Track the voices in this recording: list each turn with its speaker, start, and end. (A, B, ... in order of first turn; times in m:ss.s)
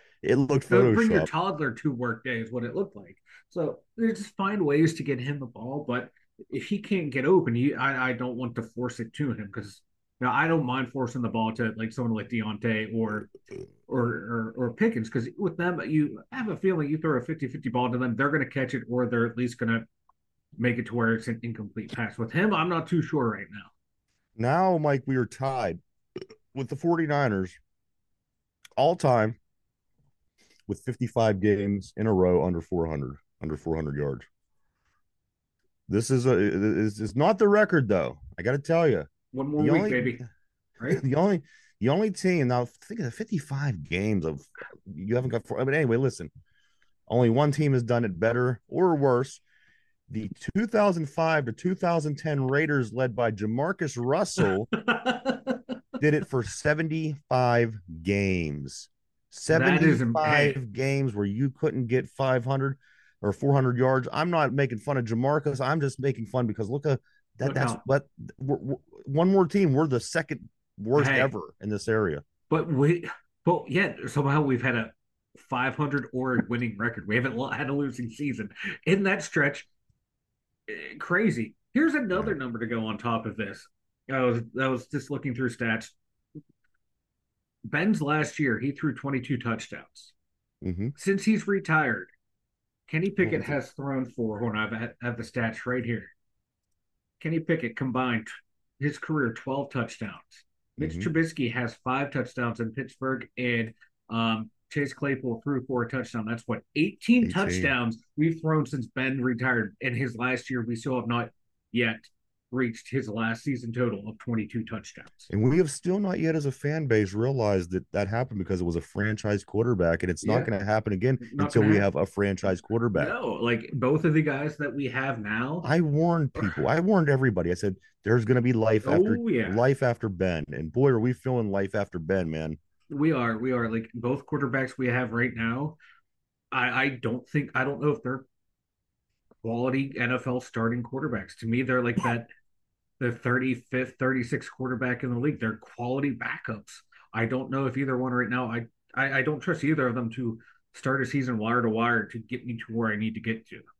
0:00.2-0:01.3 A
0:00.7-0:13.3 B
0:13.9-0:19.9 B
0:20.6-0:23.7 B
0:24.4-0:25.8 A
0:26.5-0:27.6 A
0:28.8-0:29.4 A
0:30.7-0:34.3 A
0:35.9-0:40.2 A
0:39.3-0:40.2 B
0:40.9-0:46.3 A
0:47.1-0:49.4 A
0:50.1-0:54.7 A
0:54.7-0:55.8 B
0:56.0-1:12.2 A
0:59.5-1:00.6 B
1:07.4-1:07.8 B
1:11.0-1:11.3 B
1:12.5-1:19.7 B
1:20.7-1:25.9 B
1:27.6-1:30.1 B
1:30.6-1:30.9 A
1:31.0-1:32.1 B
1:32.9-1:36.1 B
1:33.2-1:33.5 A
1:37.2-1:55.3 B
1:40.8-1:41.1 A
1:47.2-1:47.7 A
1:55.3-2:03.1 A
2:00.2-2:00.5 B
2:01.2-2:01.8 B
2:02.9-2:05.7 B
2:05.6-2:12.6 A
2:08.8-2:09.6 B
2:12.9-2:15.8 B
2:16.5-2:18.2 B
2:19.4-2:22.3 B
2:23.0-2:33.6 B